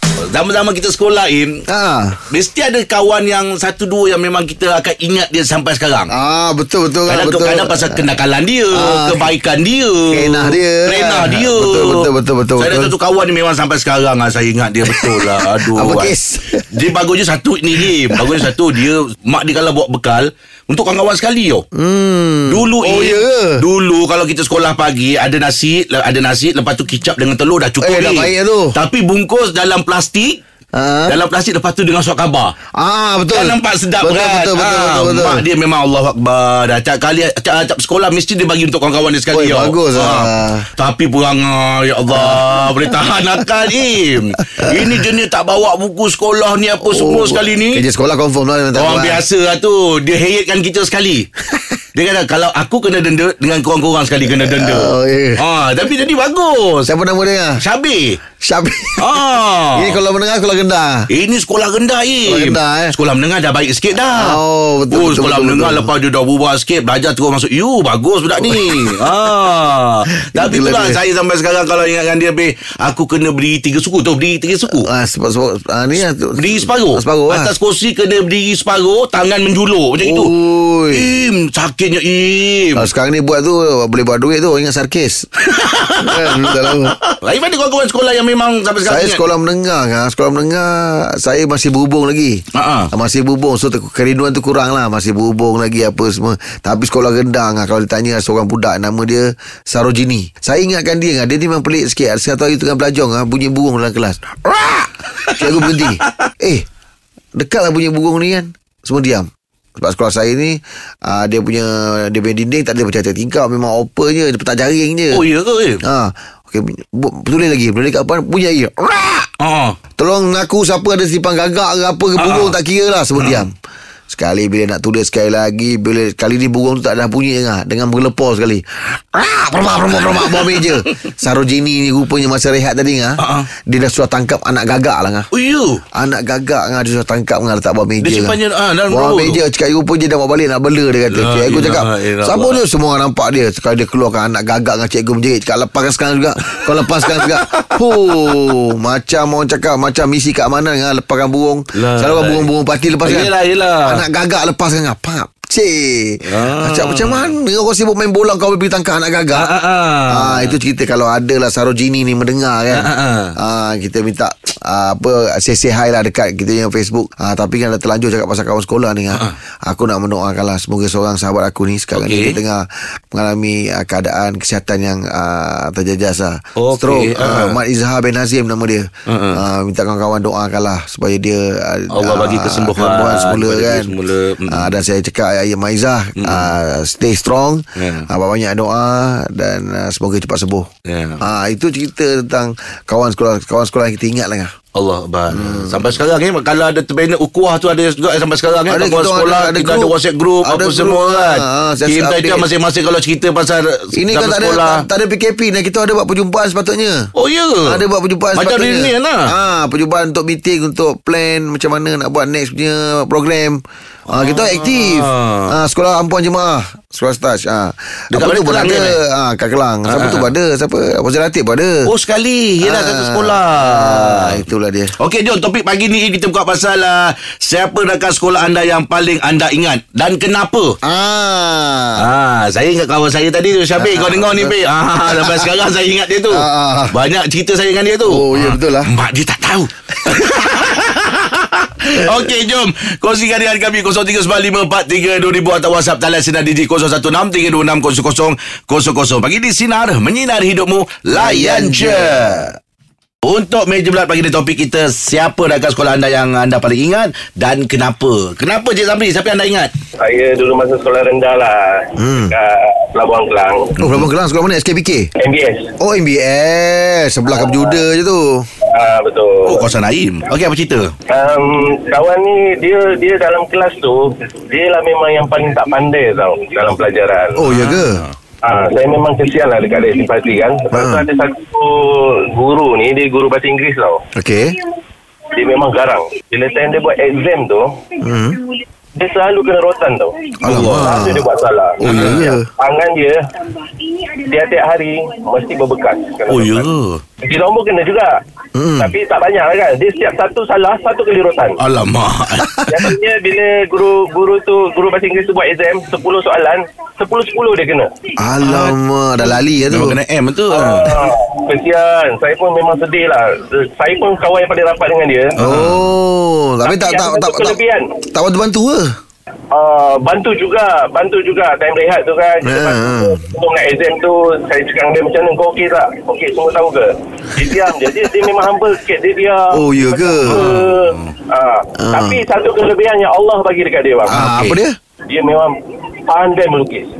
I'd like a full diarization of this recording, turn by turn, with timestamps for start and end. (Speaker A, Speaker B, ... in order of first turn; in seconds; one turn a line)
Speaker A: 0.3-1.6
Speaker B: 1.7-2.2
Speaker A: 2.3-6.1
Speaker B: 6.1-8.0
Speaker A: 7.1-16.1
Speaker B: 8.7-9.3
Speaker B: 10.1-12.9
Speaker B: 14.9-16.7
Speaker A: 16.7-21.6
Speaker B: 17.8-18.5
Speaker B: 21.7-23.6
Speaker A: 22.5-30.4
Speaker B: 27.8-28.8
Speaker B: 30.7-31.2
Speaker A: 31.1-32.5
Speaker B: 32.8-35.4
Speaker A: 33.3-47.8
Speaker B: 39.3-40.7
Speaker B: 42.1-43.0
Speaker B: 44.6-44.9
Speaker B: 46.8-49.2
Speaker A: 48.7-51.3
Speaker A: 51.9-56.9
Speaker B: 54.3-55.4
Speaker B: 56.9-57.6
Speaker A: 57.6-58.2
Speaker B: 58.4-59.1
Speaker A: 59.0-60.0
Speaker B: 59.8-61.0
Speaker A: 61.1-64.4
Speaker B: 62.2-63.0
Speaker B: 64.1-65.9
Speaker A: 64.9-74.8
Speaker B: 68.4-69.1
Speaker B: 70.2-71.0
Speaker B: 74.8-77.5
Speaker A: 76.4-80.3
Speaker B: 80.0-81.1
Speaker A: 80.9-82.9
Speaker B: 82.7-85.2
Speaker A: 85.5-89.2
Speaker B: 86.0-87.0
Speaker B: 88.8-104.7
Speaker A: 92.5-92.9
Speaker A: 105.2-106.3
Speaker B: 105.3-106.6
Speaker B: 107.3-115.2
Speaker A: 115.1-115.8
Speaker B: 115.8-119.3
Speaker A: 119.4-119.8
Speaker B: 120.0-123.5
Speaker A: 122.2-122.5
Speaker B: 124.1-135.3
Speaker A: 129.9-130.7
Speaker A: 133.2-133.5
Speaker A: 135.3-135.8
Speaker B: 135.9-138.4
Speaker A: 138.0-139.4
Speaker B: 138.9-153.3
Speaker A: 141.1-142.6
Speaker A: 146.5-148.4
Speaker A: 151.8-152.5
Speaker A: 153.0-154.0
Speaker B: 153.8-159.5
Speaker A: 156.3-157.3
Speaker A: 159.3-160.5
Speaker B: 160.1-183.9
Speaker A: 162.7-163.3
Speaker A: 171.9-172.4
Speaker A: 176.6-177.6
Speaker A: 179.1-179.4
Speaker A: 181.9-184.7
Speaker B: 184.5-190.7
Speaker A: 186.2-186.5
Speaker A: 187.8-188.1
Speaker A: 190.8-191.2
Speaker B: 191.2-194.5
Speaker A: 194.7-204.8
Speaker B: 195.3-195.9
Speaker B: 198.7-202.5
Speaker B: 203.9-207.1
Speaker A: 207.2-207.8
Speaker B: 207.6-221.8
Speaker A: 208.3-209.2
Speaker A: 214.1-215.5
Speaker A: 218.1-219.0
Speaker A: 219.9-220.3
Speaker A: 221.8-224.4
Speaker B: 222.6-224.9
Speaker A: 225.0-230.8
Speaker B: 230.8-232.0
Speaker A: 232.0-252.5
Speaker B: 233.8-234.6
Speaker B: 235.1-235.5
Speaker B: 236.3-236.9
Speaker B: 238.0-238.9
Speaker B: 242.0-242.3
Speaker B: 251.1-252.5
Speaker A: 253.2-259.7
Speaker C: 260.0-263.8
Speaker B: 262.0-262.3
Speaker B: 263.8-265.1
Speaker A: 263.8-264.1
Speaker C: 265.2-265.7
Speaker B: 265.8-268.4
Speaker C: 267.3-267.8
Speaker C: 268.7-269.7
Speaker A: 269.4-270.9
Speaker C: 271.1-277.4
Speaker B: 277.3-278.1
Speaker A: 277.5-278.1
Speaker C: 278.4-284.0
Speaker B: 280.7-281.0
Speaker B: 284.1-284.6
Speaker C: 285.3-287.8
Speaker B: 288.0-288.4
Speaker C: 288.9-293.2
Speaker B: 290.4-291.3
Speaker A: 290.4-290.9
Speaker B: 291.8-292.5
Speaker A: 291.8-292.2
Speaker C: 294.2-296.7
Speaker A: 296.3-297.0
Speaker C: 297.2-298.1
Speaker B: 298.6-298.9
Speaker C: 298.8-301.6
Speaker A: 301.6-302.6
Speaker B: 302.4-302.9
Speaker C: 302.7-307.9
Speaker B: 308.2-310.0
Speaker A: 308.4-308.8
Speaker A: 309.7-311.0
Speaker C: 310.5-315.3
Speaker A: 315.4-315.8
Speaker B: 315.4-317.6
Speaker C: 316.6-317.9
Speaker B: 318.1-318.9
Speaker C: 319.5-334.3
Speaker B: 322.4-323.3
Speaker B: 329.5-330.4
Speaker A: 330.3-331.1
Speaker B: 331.8-332.2
Speaker B: 334.1-334.8
Speaker A: 334.1-334.6
Speaker C: 335.1-335.5
Speaker C: 336.1-336.9